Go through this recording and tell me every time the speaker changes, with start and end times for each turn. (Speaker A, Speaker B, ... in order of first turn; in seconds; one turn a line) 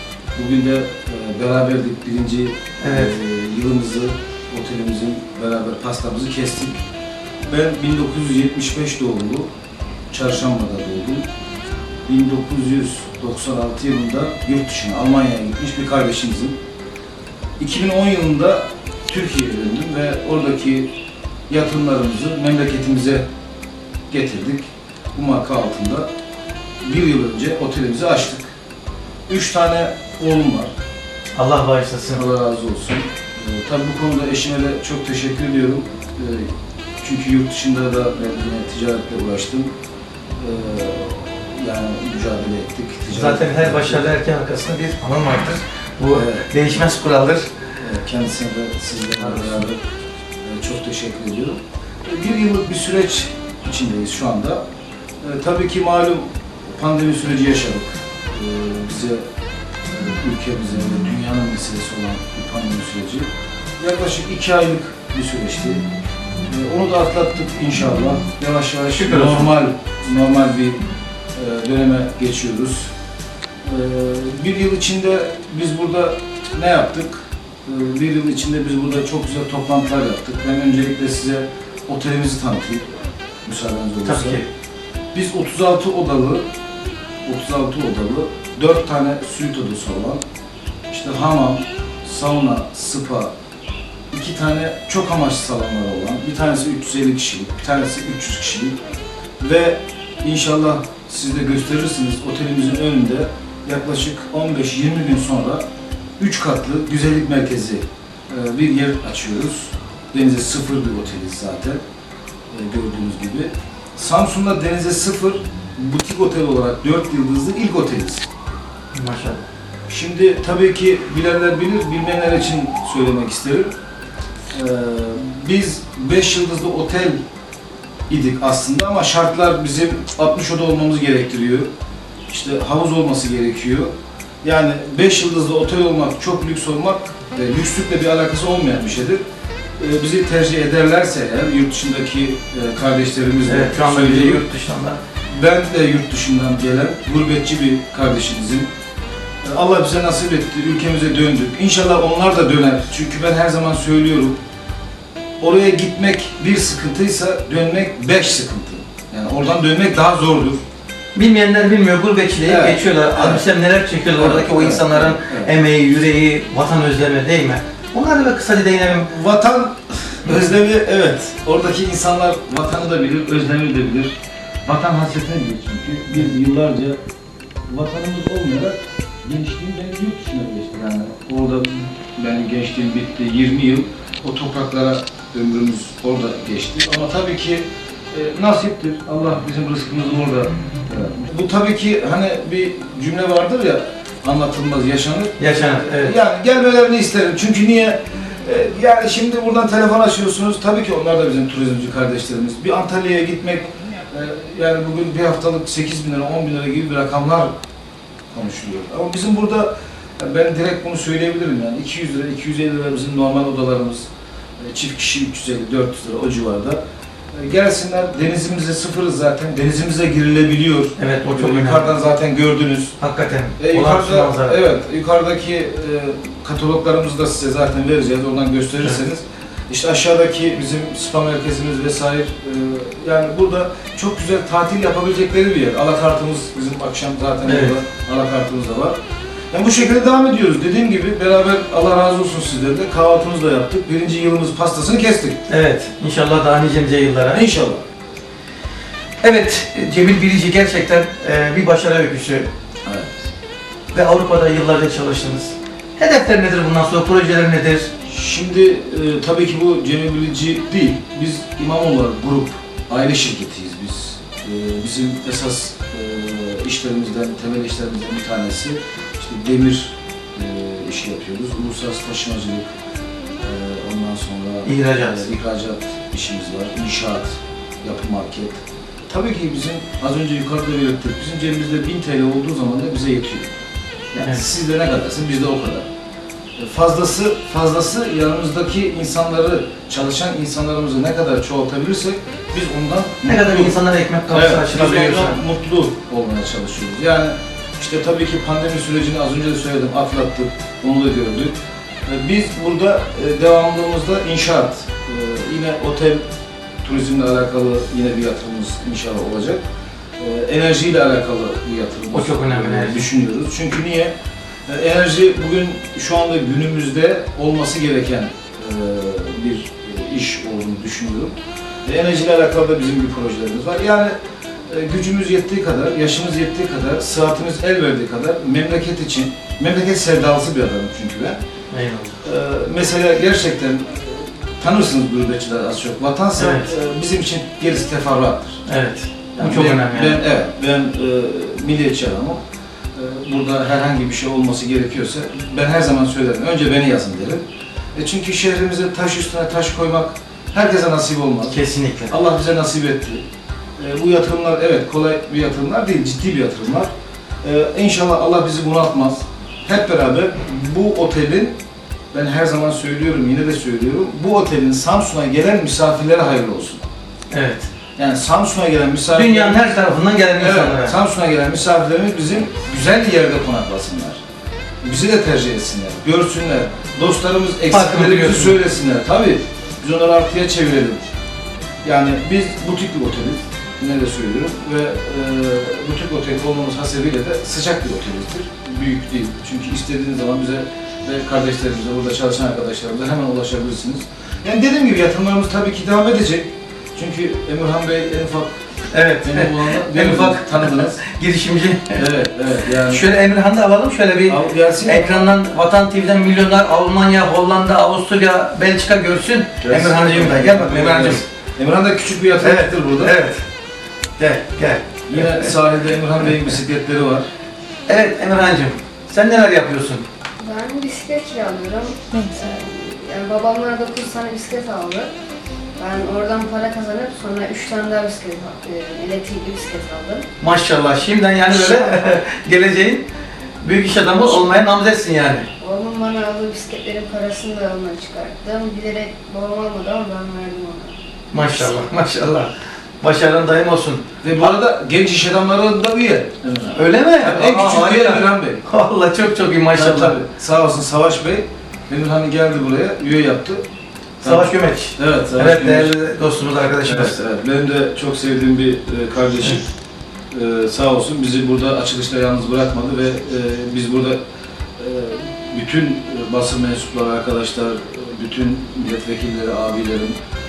Speaker A: 0.3-6.8
Speaker B: 2.8-3.2
Speaker A: 7.5-9.5
Speaker A: 10.1-11.2
Speaker A: 12.1-16.6
Speaker A: 17.6-20.9
Speaker A: 21.5-23.2
Speaker A: 24.1-26.1
Speaker A: 26.8-28.5
Speaker A: 29.3-30.7
Speaker B: 31.4-32.2
Speaker A: 32.1-36.5
Speaker A: 37.0-39.7
Speaker A: 40.4-44.0
Speaker B: 43.1-47.5
Speaker A: 46.1-46.5
Speaker A: 47.8-49.8
Speaker B: 49.2-49.6
Speaker A: 50.4-54.6
Speaker A: 55.2-59.2
Speaker A: 59.9-63.3
Speaker A: 63.8-65.8
Speaker A: 66.4-70.8
Speaker B: 68.9-69.5
Speaker A: 71.3-72.9
Speaker A: 73.6-82.9
Speaker A: 83.4-84.4
Speaker B: 84.0-84.5
Speaker A: 85.1-86.4
Speaker A: 87.2-90.2
Speaker A: 90.9-93.3
Speaker A: 94.1-98.8
Speaker A: 99.4-105.6
Speaker A: 106.2-111.8
Speaker A: 112.5-118.3
Speaker B: 118.9-119.4
Speaker A: 119.9-123.7
Speaker A: 124.5-127.2
Speaker A: 128.1-131.7
Speaker A: 132.3-133.9
Speaker A: 134.4-139.2
Speaker A: 139.8-144.4
Speaker B: 143.4-145.0
Speaker A: 145.3-148.7
Speaker A: 149.4-154.4
Speaker A: 155.4-160.6
Speaker B: 161.1-169.1
Speaker A: 162.4-163.4
Speaker A: 164.1-165.5
Speaker A: 169.1-177.0
Speaker A: 177.7-207.5
Speaker B: 195.4-196.1
Speaker A: 208.3-214.1
Speaker A: 214.6-216.8
Speaker A: 217.3-222.9
Speaker B: 221.0-221.9
Speaker B: 223.0-224.6
Speaker A: 223.6-239.0
Speaker B: 237.4-237.8
Speaker A: 239.5-245.4
Speaker B: 245.5-247.4
Speaker A: 247.3-247.8
Speaker B: 249.2-252.5
Speaker A: 252.8-253.2
Speaker B: 253.9-257.9
Speaker A: 258.1-272.7
Speaker A: 273.4-283.5
Speaker B: 274.6-275.3
Speaker A: 284.1-285.9
Speaker A: 286.6-293.8
Speaker B: 293.2-295.4
Speaker A: 294.3-301.5
Speaker A: 302.1-306.2
Speaker A: 306.8-309.6
Speaker A: 310.2-314.1
Speaker B: 312.1-313.1
Speaker A: 314.7-324.1
Speaker A: 324.7-331.4
Speaker B: 331.7-332.2
Speaker A: 332.2-338.6
Speaker B: 336.4-336.7
Speaker B: 338.7-340.2
Speaker A: 339.4-342.4
Speaker A: 342.9-347.4
Speaker A: 347.9-351.6
Speaker B: 351.5-352.1
Speaker A: 352.1-353.2
Speaker A: 353.8-356.9
Speaker A: 357.4-361.6
Speaker A: 362.1-366.8
Speaker B: 367.3-367.7
Speaker A: 368.0-369.7
Speaker B: 369.1-371.0
Speaker A: 370.4-374.2
Speaker A: 374.8-381.0
Speaker B: 377.7-378.6
Speaker A: 381.8-398.5
Speaker B: 398.9-402.0
Speaker A: 399.2-401.0
Speaker A: 402.0-403.0
Speaker B: 402.8-411.2
Speaker A: 404.3-405.3
Speaker A: 409.6-413.1
Speaker B: 412.4-413.4
Speaker B: 414.2-415.5
Speaker A: 415.1-417.3
Speaker B: 417.9-420.0
Speaker C: 420.4-425.1
Speaker C: 425.8-430.2
Speaker B: 430.4-433.0
Speaker B: 433.6-435.5
Speaker C: 435.6-440.9
Speaker B: 441.3-444.0
Speaker A: 444.2-448.6
Speaker B: 446.7-450.2
Speaker A: 449.7-453.6
Speaker A: 454.2-455.9
Speaker B: 454.2-457.2
Speaker A: 456.8-459.6
Speaker A: 460.3-464.2
Speaker A: 464.8-470.1